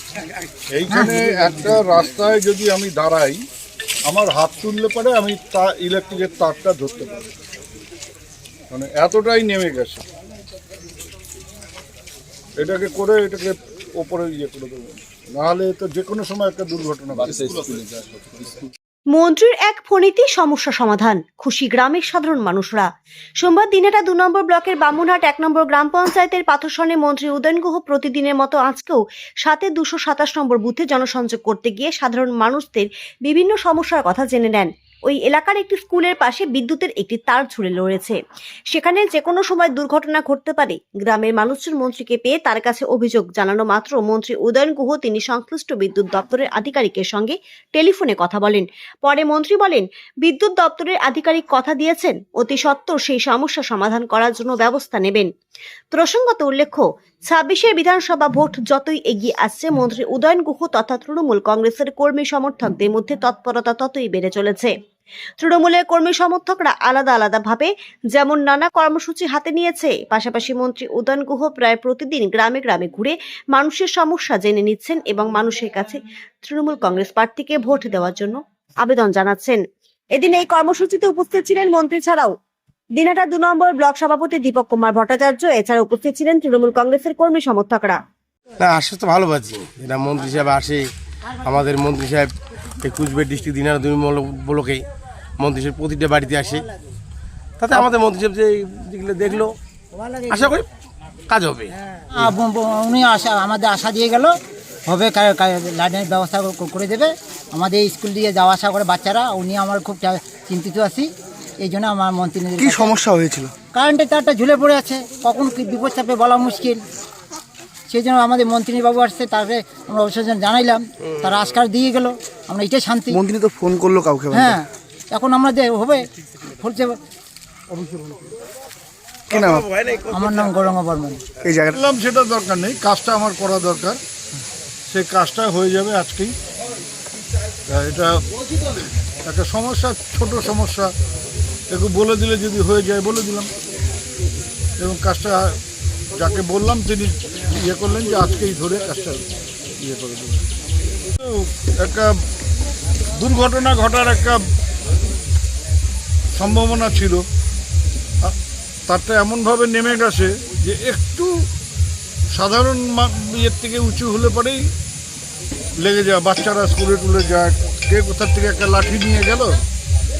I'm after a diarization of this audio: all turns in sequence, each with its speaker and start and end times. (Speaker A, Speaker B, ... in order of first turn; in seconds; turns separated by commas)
Speaker A: 0.7-3.4, Speaker B: 0.9-1.5, Speaker A: 4.1-7.2, Speaker A: 8.7-10.0, Speaker A: 12.6-18.1, Speaker C: 19.1-22.9, Speaker C: 23.4-38.2, Speaker C: 38.7-55.3, Speaker C: 55.9-64.7, Speaker C: 65.4-79.6, Speaker C: 80.1-82.3, Speaker C: 83.0-88.0, Speaker D: 88.6-90.8, Speaker D: 91.4-94.8, Speaker D: 95.4-96.7, Speaker D: 97.6-99.5, Speaker D: 100.3-100.7, Speaker D: 101.3-102.3, Speaker B: 102.1-104.3, Speaker B: 104.9-111.1, Speaker B: 111.6-113.0, Speaker E: 112.6-113.5, Speaker B: 113.7-116.8, Speaker B: 117.9-123.2, Speaker E: 123.1-124.6, Speaker B: 124.3-126.0, Speaker B: 126.6-127.0, Speaker E: 129.3-129.7, Speaker D: 129.3-130.5, Speaker B: 130.1-131.2, Speaker E: 131.4-131.8, Speaker A: 131.7-134.0, Speaker A: 134.9-136.3, Speaker A: 137.7-138.2, Speaker A: 139.3-140.9, Speaker A: 141.7-143.5, Speaker A: 144.8-145.5, Speaker A: 146.2-149.2, Speaker A: 149.8-150.4, Speaker A: 151.2-152.1, Speaker A: 153.2-154.4, Speaker A: 156.4-157.2, Speaker A: 158.9-161.3, Speaker A: 162.3-164.6, Speaker A: 165.8-169.5